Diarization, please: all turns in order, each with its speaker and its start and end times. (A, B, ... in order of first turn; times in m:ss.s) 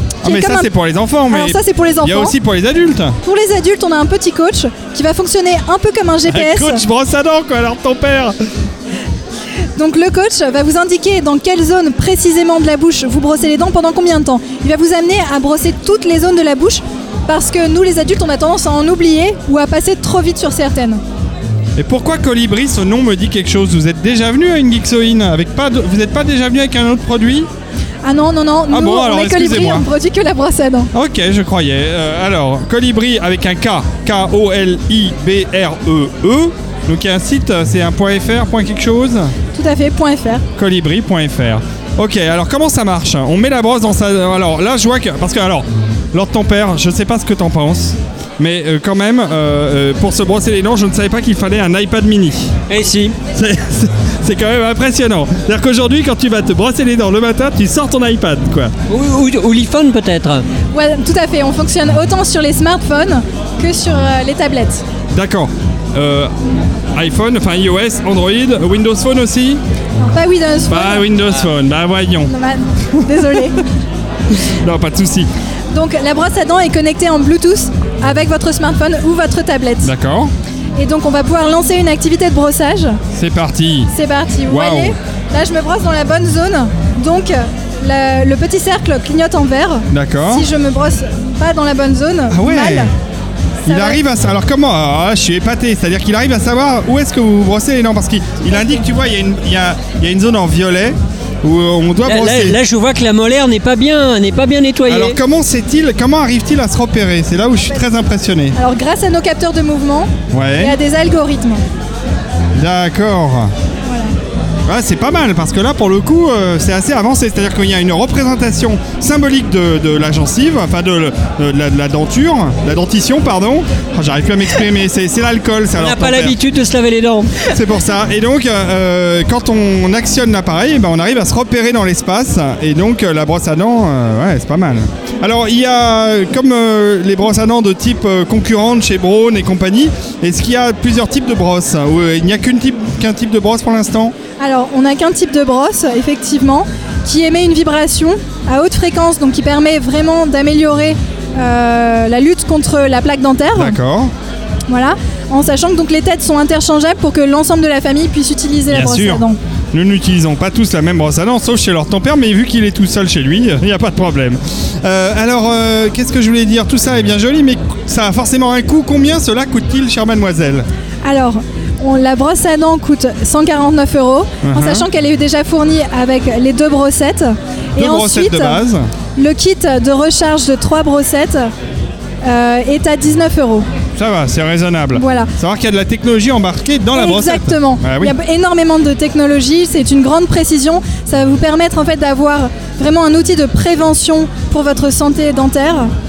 0:00.2-0:03.2 A
0:00.2-0:00.7 B
0:01.3-0:02.3 B
0:03.2-0:06.8 B
0:06.3-0:08.3 A
0:09.8-0:21.0 B
0:21.8-0:27.5 A
0:28.0-0:30.9 B
0:28.7-0:29.8 A
0:30.9-0:39.3 A
0:39.5-0:40.4 B
0:40.6-0:52.5 A
0:52.7-0:53.1 C
0:53.3-0:58.7 A
0:58.9-1:00.4 C
1:00.7-1:04.8 B
1:05.1-1:06.3 A
1:06.9-1:09.6 A
1:10.0-1:11.1 B
1:10.7-1:12.3 A
1:12.3-1:13.6 B
1:14.6-1:15.3 A
1:15.7-1:19.9 B
1:19.8-1:20.3 A
1:20.8-1:23.0 B
1:23.1-1:23.9 A
1:23.9-1:32.9 B
1:24.5-1:24.9 A
1:29.9-1:30.4 A
1:32.3-1:32.9 A
1:33.6-1:34.0 B
1:33.6-1:42.6 A
1:38.5-1:38.8 B
1:42.0-1:45.2 C
1:44.9-1:48.6 A
1:48.6-1:51.6 B
1:50.3-1:50.7 A
1:52.6-1:53.5 A
1:53.9-1:54.1 B
1:54.7-2:06.3 A
2:05.8-2:07.3 C
2:07.5-2:24.1 A
2:24.4-2:33.8 B
2:33.5-2:34.1 A
2:34.7-2:39.4 B
2:38.7-2:50.6 A
2:51.0-2:58.6 B
2:54.4-2:54.8 A
2:57.8-2:58.9 A
2:59.2-3:01.5 B
3:02.2-3:03.6 B
3:04.0-3:08.1 A
3:04.9-3:05.3 B
3:06.9-3:15.9 B